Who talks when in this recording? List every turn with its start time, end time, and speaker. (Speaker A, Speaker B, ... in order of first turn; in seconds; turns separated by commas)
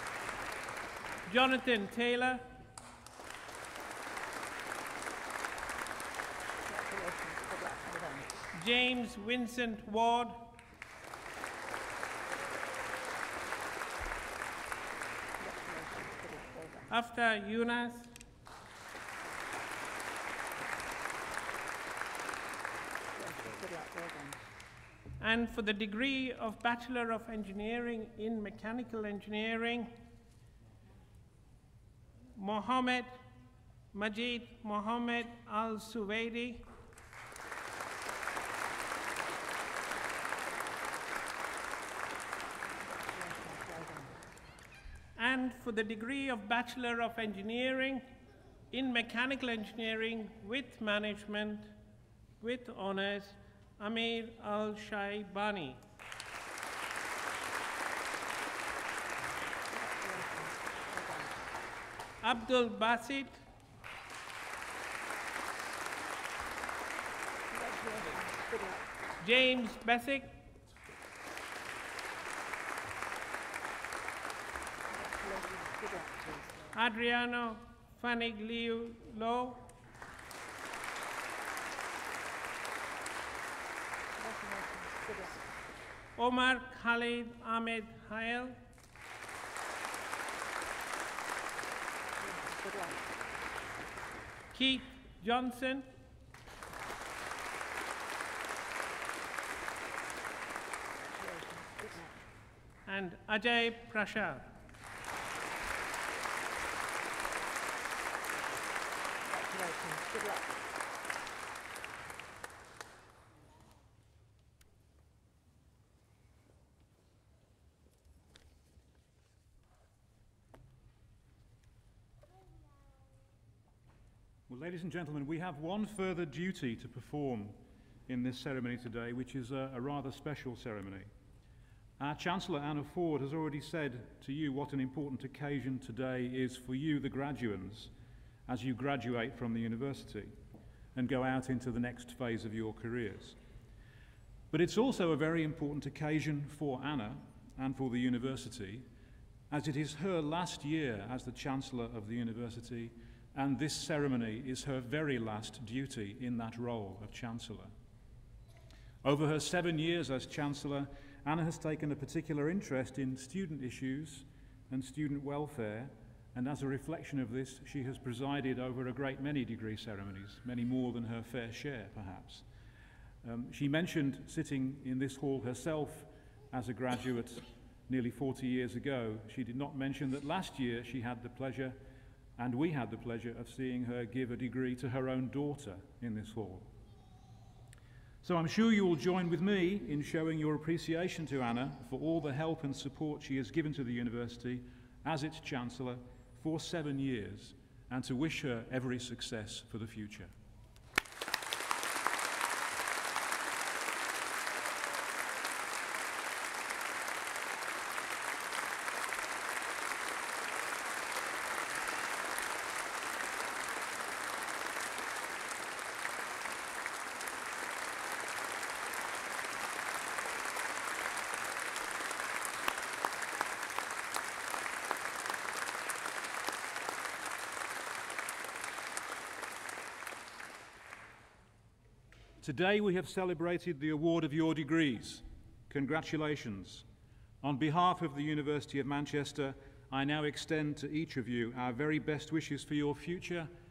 Speaker A: 1.3-2.4, Speaker B: 6.7-8.4, Speaker A: 8.5-10.5, Speaker B: 15.4-16.9, Speaker A: 16.9-18.1, Speaker B: 23.1-24.4, Speaker A: 25.2-29.9, Speaker A: 32.4-33.2, Speaker A: 33.9-36.7, Speaker B: 42.8-44.2, Speaker A: 45.2-48.1, Speaker A: 48.7-51.8, Speaker A: 52.4-55.8, Speaker B: 59.7-61.4, Speaker A: 62.2-63.4, Speaker B: 67.5-68.9, Speaker A: 69.2-70.4, Speaker B: 74.9-76.8, Speaker A: 76.8-79.7, Speaker B: 84.2-85.6, Speaker A: 86.2-88.6, Speaker B: 92.2-93.2, Speaker A: 94.5-95.9, Speaker B: 101.0-102.2, Speaker A: 102.9-104.5, Speaker B: 109.3-110.6, Speaker C: 124.5-131.1, Speaker C: 132.0-137.9, Speaker C: 138.5-140.3, Speaker C: 140.9-143.4, Speaker C: 144.5-148.9, Speaker C: 149.5-157.7, Speaker C: 159.0-172.4, Speaker C: 173.2-181.8, Speaker C: 182.4-186.7, Speaker C: 188.2-200.3, Speaker C: 232.4-236.8, Speaker C: 237.4-243.5